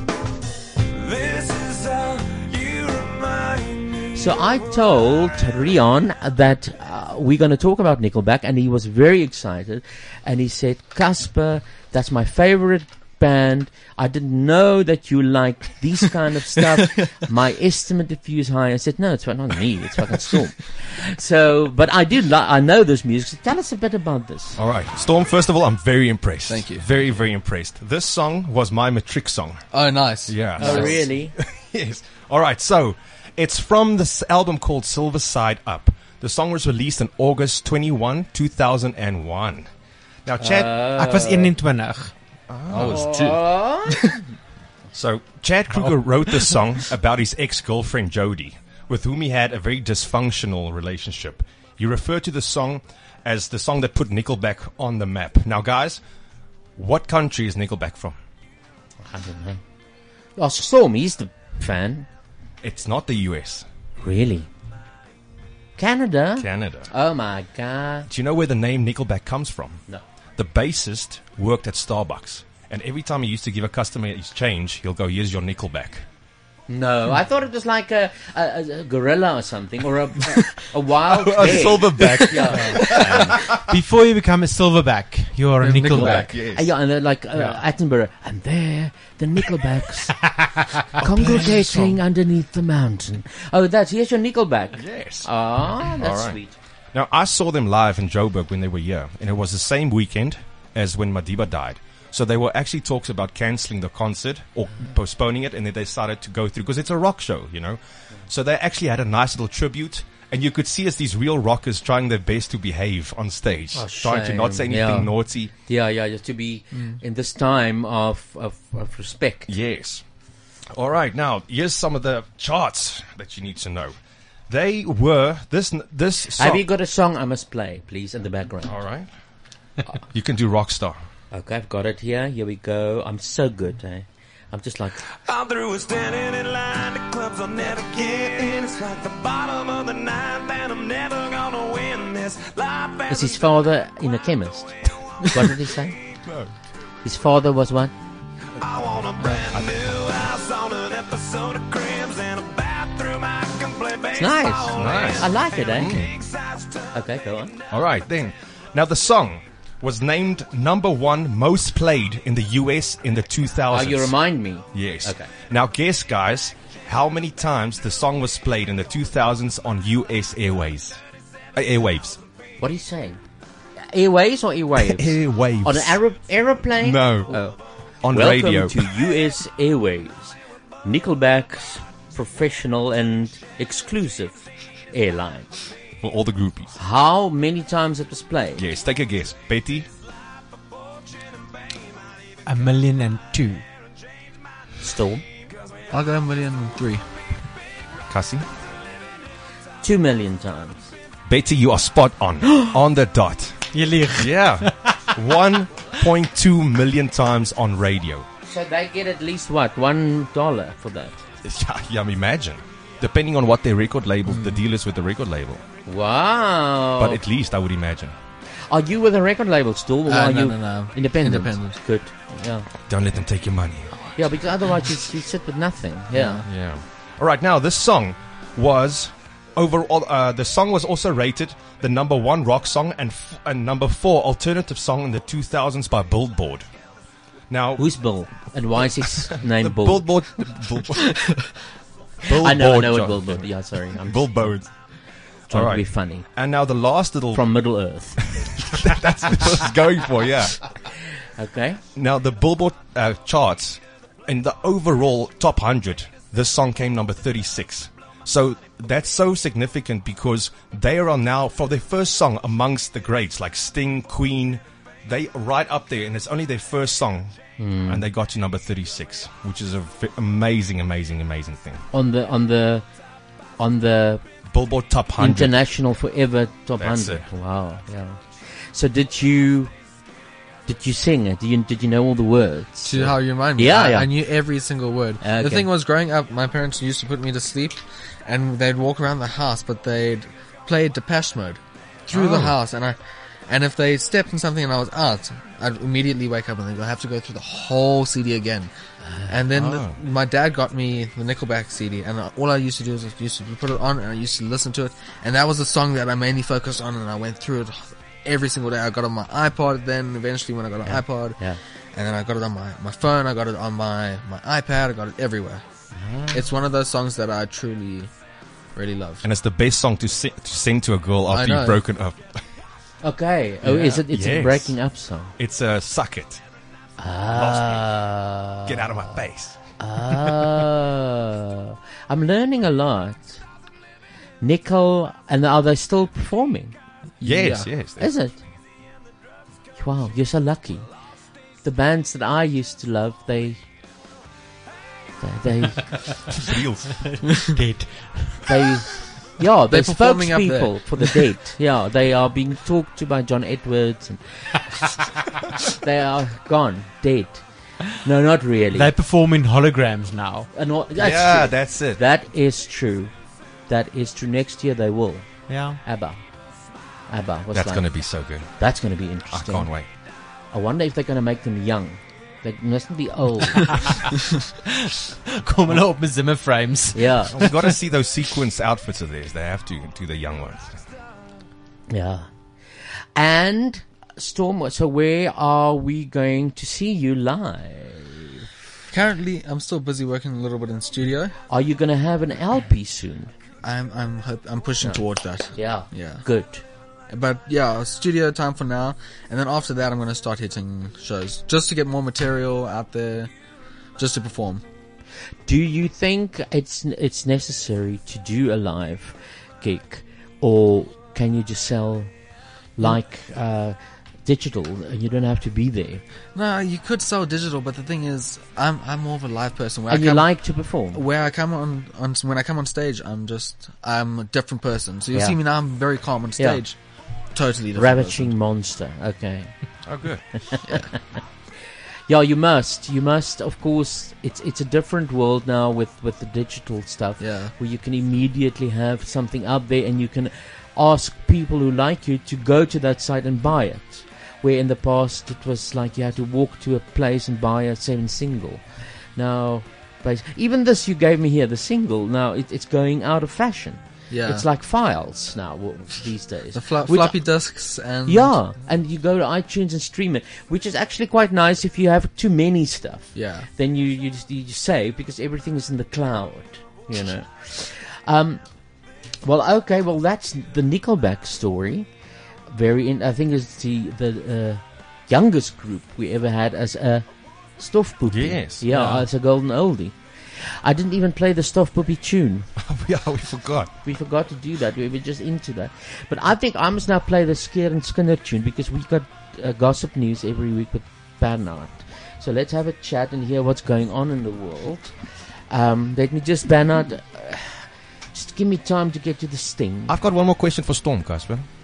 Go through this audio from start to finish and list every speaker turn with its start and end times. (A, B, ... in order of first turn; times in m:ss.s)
0:00.9-0:05.4 A
0:04.1-0:24.6 B
0:24.6-0:29.6 C
0:26.5-0:26.8 D
0:29.7-0:31.0 D
0:30.3-0:39.7 C
0:30.6-0:31.3 B
0:40.2-0:40.9 C
0:40.4-0:41.5 B
0:40.9-0:42.1 E
0:42.5-0:43.1 C
0:42.7-0:44.2 D
0:42.7-0:44.2 B
0:44.9-0:56.0 C
0:45.8-0:46.5 E
0:56.8-0:58.2 C
0:59.0-0:59.6 B
1:00.4-1:02.1 B
1:02.6-1:03.6 C
1:04.0-1:04.5 B
1:05.8-1:08.1 B
1:06.4-1:06.9 C
1:08.1-1:09.8 C
1:10.4-1:16.0 C
1:16.7-1:23.6 B
1:21.1-1:23.7 C
1:22.5-1:23.0 E
1:23.7-1:26.3 E
1:25.6-1:26.2 D
1:25.9-1:30.4 B
1:25.9-1:26.7 C
1:27.3-1:27.6 E
1:31.0-1:36.6 B
1:31.1-1:31.8 C
1:31.2-1:31.9 E
1:34.7-1:36.4 C
1:36.9-1:55.5 C
1:53.7-1:55.1 B
1:55.6-1:59.5 B
1:56.7-1:57.0 D
1:59.5-2:00.0 C
2:00.7-2:03.9 C
2:04.5-2:06.6 C
2:06.3-2:08.7 B
2:08.6-2:09.1 C
2:10.1-2:11.0 C
2:11.3-2:15.0 B
2:15.2-2:23.4 A
2:23.1-2:24.7 B
2:25.3-2:26.0 B
2:27.0-2:27.9 B
2:28.6-2:37.0 A
2:34.1-2:36.1 B
2:34.7-2:36.1 C
2:36.9-2:37.6 B
2:37.7-2:44.1 C
2:43.7-2:45.3 B
2:44.7-2:51.0 C
2:51.6-2:52.2 C
2:52.6-2:53.2 B
2:53.9-3:05.5 B
2:54.8-2:56.0 C
2:56.7-2:57.4 C
2:58.0-2:59.1 C
3:06.0-3:06.7 C
3:06.8-3:08.6 B
3:08.6-3:09.9 C
3:12.4-3:13.6 E
3:14.8-3:15.2 B
3:15.9-3:17.0 D
3:18.1-3:18.4 C
3:19.8-3:20.9 B
3:21.3-3:23.6 C
3:23.7-3:25.1 E
3:24.1-3:28.2 C
3:28.4-3:31.2 B
3:31.4-3:35.6 C
3:34.3-3:34.6 D
3:35.8-3:37.2 B
3:37.0-3:38.1 C
3:38.7-3:42.7 B
3:40.0-3:41.8 D
3:42.9-3:44.0 C
3:44.2-3:46.4 B
3:46.1-3:46.4 D
3:46.4-3:56.6 C
3:57.5-3:57.8 C
3:57.8-4:00.2 B
3:59.3-4:01.4 C
4:02.2-4:04.7 C
4:02.3-4:04.6 B
4:05.5-4:06.2 B
4:05.5-4:07.5 C
4:07.3-4:08.2 B
4:08.2-4:10.7 C
4:11.4-4:11.8 B
4:12.0-4:31.8 C
4:27.6-4:28.0 B
4:31.9-4:32.9 B
4:33.6-4:34.2 B
4:34.5-4:35.6 C
4:35.2-4:39.7 B
4:36.8-4:37.3 C
4:40.6-4:44.2 B
4:42.8-4:58.7 D
4:45.2-4:45.7 B
4:52.1-4:52.5 C
4:59.1-4:59.3 B
4:59.3-5:11.4 D
4:59.5-5:00.0 C
5:10.8-5:11.6 B
5:11.9-5:15.6 D
5:16.0-5:16.4 C
5:16.3-5:18.1 D
5:18.7-5:19.2 D
5:19.2-5:22.4 C
5:21.3-5:21.8 D
5:23.0-5:25.3 B
5:23.8-5:24.8 C
5:25.4-5:26.4 C
5:27.0-5:29.2 B
5:27.3-5:27.9 C
5:28.6-5:29.6 C
5:29.8-5:33.4 B
5:34.4-5:36.8 B
5:37.2-5:37.7 D
5:37.2-5:38.1 C
5:38.0-5:38.4 B
5:39.8-5:40.9 B
5:41.6-5:43.6 B
5:45.2-5:46.1 B
5:46.3-5:47.2 C
5:47.4-5:48.6 E
5:48.5-5:54.9 B
5:49.7-5:51.1 D
5:55.7-5:58.9 B
5:58.7-6:00.5 E
6:00.5-6:03.1 B
6:01.0-6:02.0 C
6:03.7-6:06.2 B
6:05.5-6:05.8 E
6:07.1-6:09.7 B
6:07.5-6:08.5 C
6:09.3-6:09.9 C
6:10.5-6:13.9 B
6:14.8-6:17.7 E
6:16.9-6:17.4 B
6:17.3-6:20.8 C
6:21.9-6:22.3 B
6:23.2-6:28.4 B
6:28.9-6:31.3 D
6:31.5-6:33.3 B
6:33.6-6:36.2 D
6:34.8-6:36.6 B
6:37.1-6:43.3 D
6:44.0-6:44.6 D
6:45.4-6:52.1 B
6:52.8-6:56.0 B
6:56.3-7:06.8 D
6:59.9-7:01.0 B
7:05.1-7:05.5 B
7:07.3-7:08.3 D
7:07.7-7:09.9 B
7:09.8-7:10.6 C
7:12.1-7:37.4 B
7:17.2-7:17.5 D
7:34.1-7:34.5 D
7:36.5-7:38.4 D
7:38.0-7:48.4 B
7:43.1-7:43.5 D
7:49.2-7:51.9 B
7:52.5-8:02.5 B
7:58.1-7:59.0 C
8:02.6-8:03.7 C
8:03.8-8:19.9 B
8:19.9-8:21.5 C